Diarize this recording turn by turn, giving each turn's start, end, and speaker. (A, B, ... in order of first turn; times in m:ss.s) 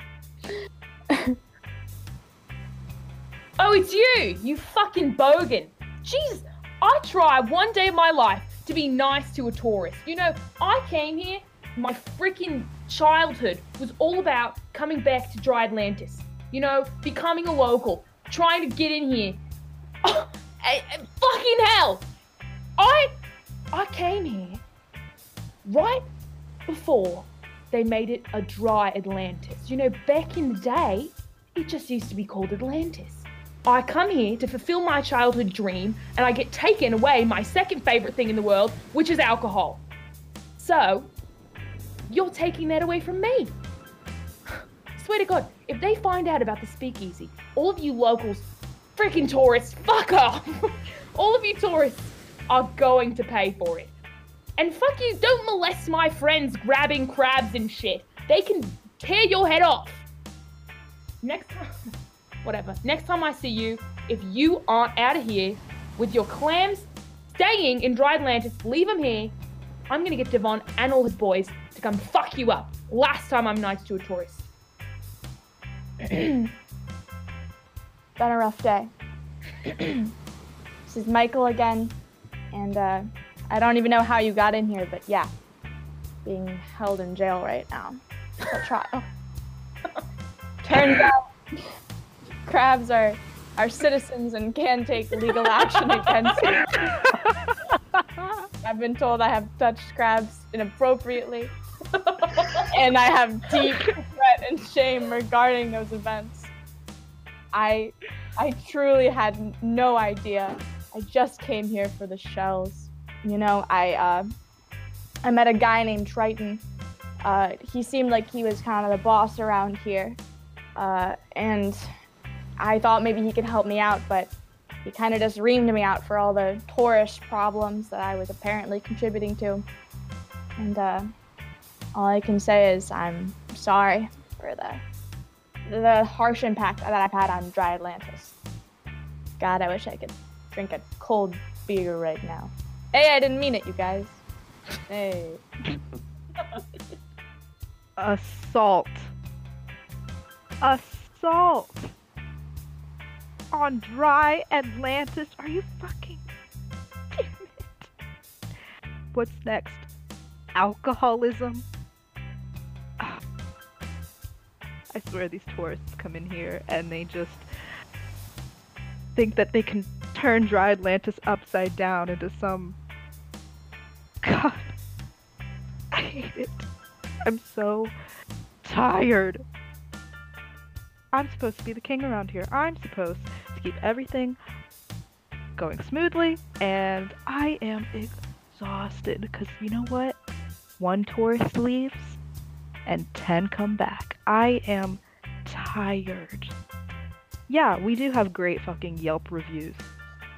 0:03.6-0:19.4 A
0:20.0-0:22.1 A
0:22.8-0:23.1 A
0:23.7-0:24.6 A
0:25.6-0:26.1 A
0:26.7-0:39.8 A
0:40.6-0:41.1 A
0:42.1-0:43.5 A
0:44.5-0:53.9 A
0:54.6-1:00.0 A
1:01.2-1:01.7 A
1:02.4-1:09.4 A
1:09.9-1:14.5 A
1:16.2-1:16.4 A
1:18.2-1:18.9 B
1:20.8-1:22.0 B
1:22.5-1:25.3 B
1:26.2-1:29.0 B
1:30.6-1:31.3 B
1:30.8-1:31.1 A
1:32.4-1:36.7 B
1:37.5-1:38.4 C
1:38.6-1:41.5 B
1:41.9-1:42.7 A
1:42.7-1:46.5 B
1:47.5-1:54.3 B
1:55.2-1:56.6 B
1:57.2-2:00.2 B
2:00.7-2:01.8 B
2:02.6-2:04.3 B
2:04.8-2:09.6 B
2:10.6-2:11.1 B
2:11.9-2:14.8 B
2:15.6-2:18.3 B
2:19.4-2:24.2 B
2:24.9-2:25.4 B
2:28.0-2:29.1 C
2:30.6-2:31.9 C
2:33.5-2:36.2 C
2:37.1-2:37.9 C
2:39.1-2:39.9 C
2:40.5-2:41.7 C
2:44.9-2:47.4 C
2:49.1-2:52.8 C
2:54.2-2:54.7 C
2:55.9-2:56.6 C
2:57.2-2:57.9 C
2:58.6-2:59.4 C
3:01.1-3:04.4 C
3:05.6-3:10.2 C
3:10.8-3:12.2 C
3:12.8-3:16.5 C
3:17.5-3:19.9 C